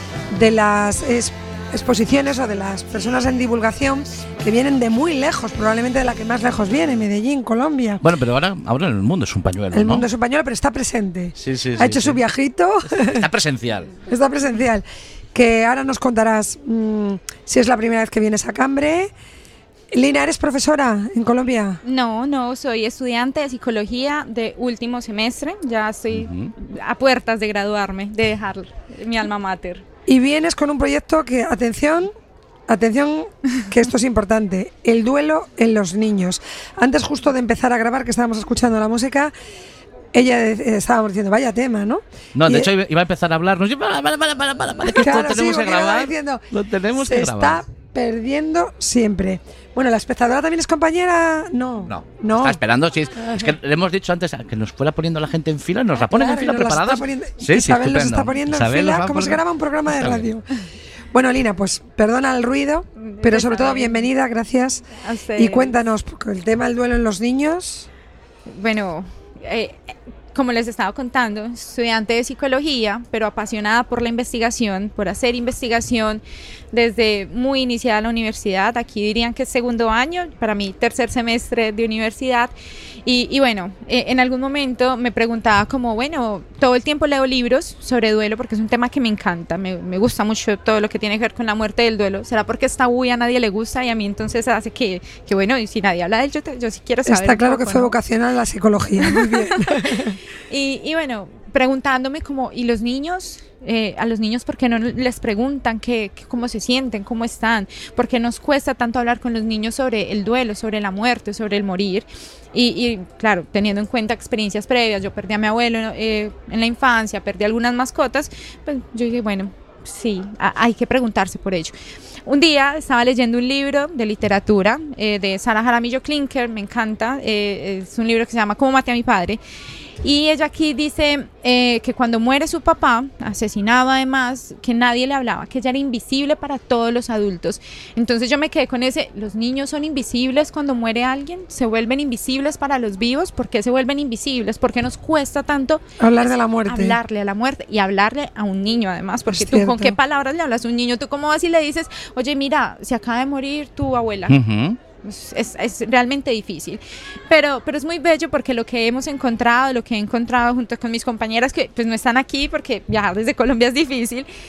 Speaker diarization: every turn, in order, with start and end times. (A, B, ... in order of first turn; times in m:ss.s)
0:00.3-0:08.0 A
0:08.0-0:10.0 B
0:09.7-0:13.3 A
0:11.4-0:12.2 B
0:13.0-0:13.9 B
0:14.1-0:19.1 A
0:19.9-0:21.8 A
0:21.8-0:29.8 C
0:26.1-0:26.5 B
0:30.1-0:32.1 A
0:32.7-0:39.3 A
0:40.1-0:42.7 A
0:42.3-0:47.6 B
0:44.9-0:46.4 A
0:47.0-0:52.6 A
0:51.8-0:59.4 B
0:53.2-0:53.5 A
0:55.9-1:00.4 A
0:59.9-1:00.3 B
1:01.1-1:07.9 A
1:03.0-1:04.0 C
1:05.0-1:05.7 C
1:08.5-1:22.5 C
1:23.0-1:37.9 C
1:37.0-1:40.2 A
1:39.0-2:01.7 C
2:02.2-2:09.4 C
2:10.0-2:34.4 C
2:26.0-2:27.0 A
2:29.3-2:30.0 A
2:34.3-2:34.8 B
2:35.0-2:44.3 C